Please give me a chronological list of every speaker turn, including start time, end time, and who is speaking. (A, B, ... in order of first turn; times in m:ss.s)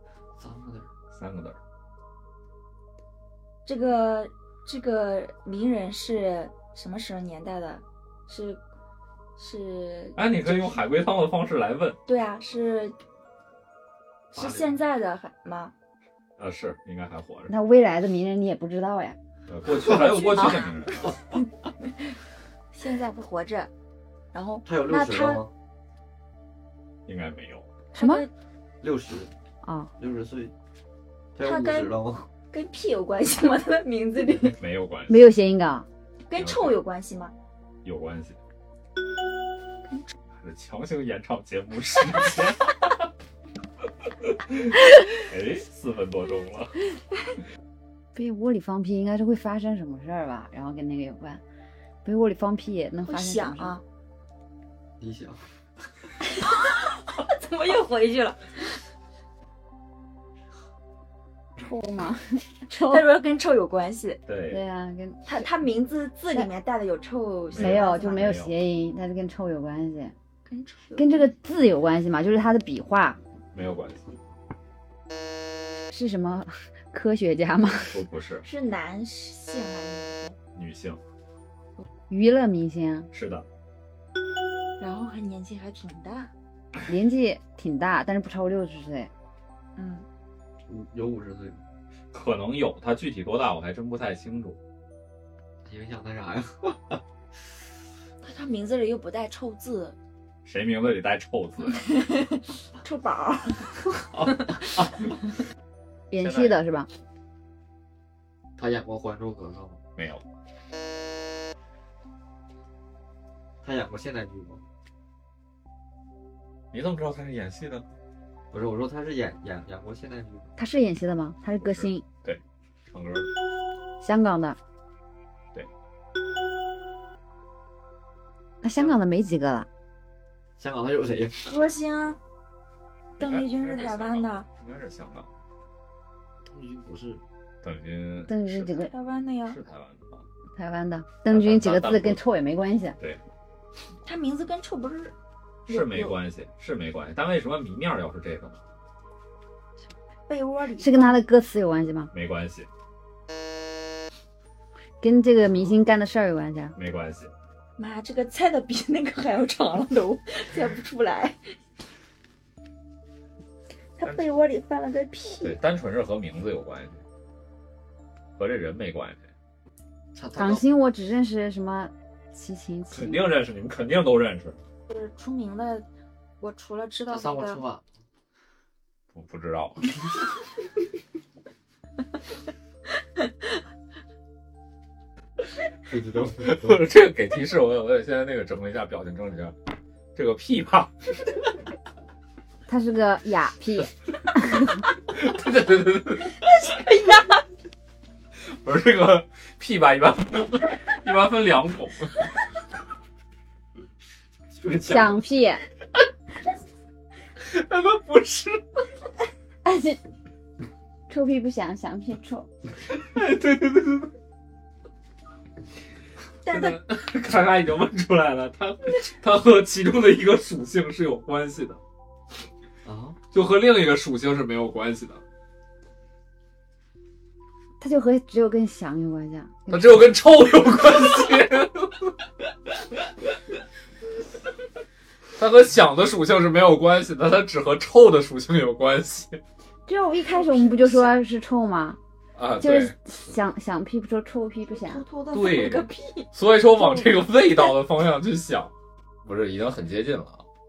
0:00.4-0:00.9 A
0:01.1-0:01.6 B
0:03.6-0:08.6 C
0:09.4-0:10.8 C
0:10.2-0:12.0 B
0:12.1-0:13.0 C
0:14.3-0:15.7 C
0:14.4-0:14.7 A
0:16.4-0:17.5 B
0:17.5-0:19.2 D
0:19.5-0:21.2 B
0:19.7-0:20.1 A
0:19.9-0:21.4 C
0:22.7-0:23.7 C
0:24.3-0:25.4 C
0:24.6-0:25.5 A
0:27.1-0:27.7 B
0:27.9-0:28.3 C
0:28.0-0:28.3 D
0:28.8-0:29.3 A
0:29.6-0:29.9 D
0:30.0-0:30.5 A
0:31.4-0:32.3 A
0:31.4-0:31.9 C
0:32.5-0:34.6 C
0:34.6-0:35.3 B
0:35.1-0:35.9 D
0:36.3-0:37.3 C
0:36.4-0:36.8 B
0:37.8-0:38.4 B
0:40.3-0:43.0 B
0:44.3-0:46.8 B
0:48.1-0:51.4 D
0:52.0-0:53.8 D
0:53.1-0:53.8 C
0:55.0-0:55.4 A
0:56.4-0:58.6 C
1:01.6-1:03.1 D
1:02.7-1:04.2 C
1:04.3-1:04.6 B
1:04.5-1:05.5 D
1:05.2-1:08.3 C
1:07.5-1:08.6 B
1:07.5-1:10.1 D
1:10.4-1:11.3 C
1:11.0-1:13.2 D
1:13.5-1:14.1 B
1:15.9-1:18.0 D
1:17.9-1:18.5 B
1:18.4-1:20.4 C
1:20.6-1:21.0 B
1:22.1-1:23.1 D
1:23.1-1:23.5 B
1:24.8-1:26.3 C
1:26.9-1:29.1 D
1:29.8-1:30.1 C
1:30.7-1:31.7 A
1:32.1-1:34.6 B
1:35.6-1:37.0 A
1:38.2-1:40.0 C
1:40.4-1:41.8 B
1:42.0-1:43.8 C
1:44.2-1:44.6 A
1:46.1-1:46.9 D
1:46.2-1:46.6 B
1:48.6-1:49.8 A
1:50.0-1:50.2 B
1:53.6-1:54.6 A
1:56.7-1:57.9 B
1:58.5-2:00.5 A
2:00.6-2:02.0 D
2:01.6-2:03.3 B
2:04.0-2:04.6 D
2:08.6-2:09.7 D
2:10.6-2:11.6 A
2:11.4-2:12.2 C
2:13.2-2:14.5 C
2:13.2-2:15.3 B
2:16.4-2:17.2 A
2:17.6-2:18.8 B
2:18.3-2:18.9 D
2:18.8-2:19.6 C
2:19.5-2:20.3 B
2:20.6-2:23.0 D
2:21.3-2:22.2 B
2:24.0-2:25.2 C
2:25.7-2:26.2 C
2:25.7-2:28.6 B
2:30.3-2:31.2 C
2:30.8-2:32.1 D
2:32.1-2:32.7 B
2:35.0-2:36.8 D
2:36.8-2:37.3 B
2:37.8-2:41.4 C
2:44.0-2:45.6 C
2:44.0-2:44.3 B
2:45.4-2:47.0 B
2:48.4-2:49.3 B
2:50.1-2:50.6 A
2:50.4-2:53.2 D
2:52.9-2:54.6 B
2:54.9-2:55.9 C
2:56.4-2:57.6 C
2:57.1-2:57.8 A
2:59.1-2:59.9 B
3:05.9-3:06.8 A
3:06.4-3:09.6 B
3:10.2-3:11.3 B
3:12.7-3:14.8 D
3:15.1-3:16.4 B
3:16.5-3:17.4 C
3:18.5-3:22.3 B
3:24.5-3:25.2 B
3:24.9-3:25.6 D
3:27.4-3:28.6 B
3:29.6-3:30.0 D
3:31.1-3:32.5 D
3:32.9-3:34.1 B
3:36.4-3:36.8 C
3:36.5-3:41.8 B
3:42.8-3:43.2 A
3:43.3-3:45.2 B
3:47.8-3:49.9 D
3:49.7-3:52.1 B
3:55.4-3:59.4 B
3:59.9-4:02.0 D
4:00.2-4:01.1 C
4:02.4-4:03.0 B
4:02.6-4:05.0 D
4:04.7-4:06.3 C
4:05.3-4:08.7 B
4:06.8-4:07.1 D
4:09.2-4:10.4 B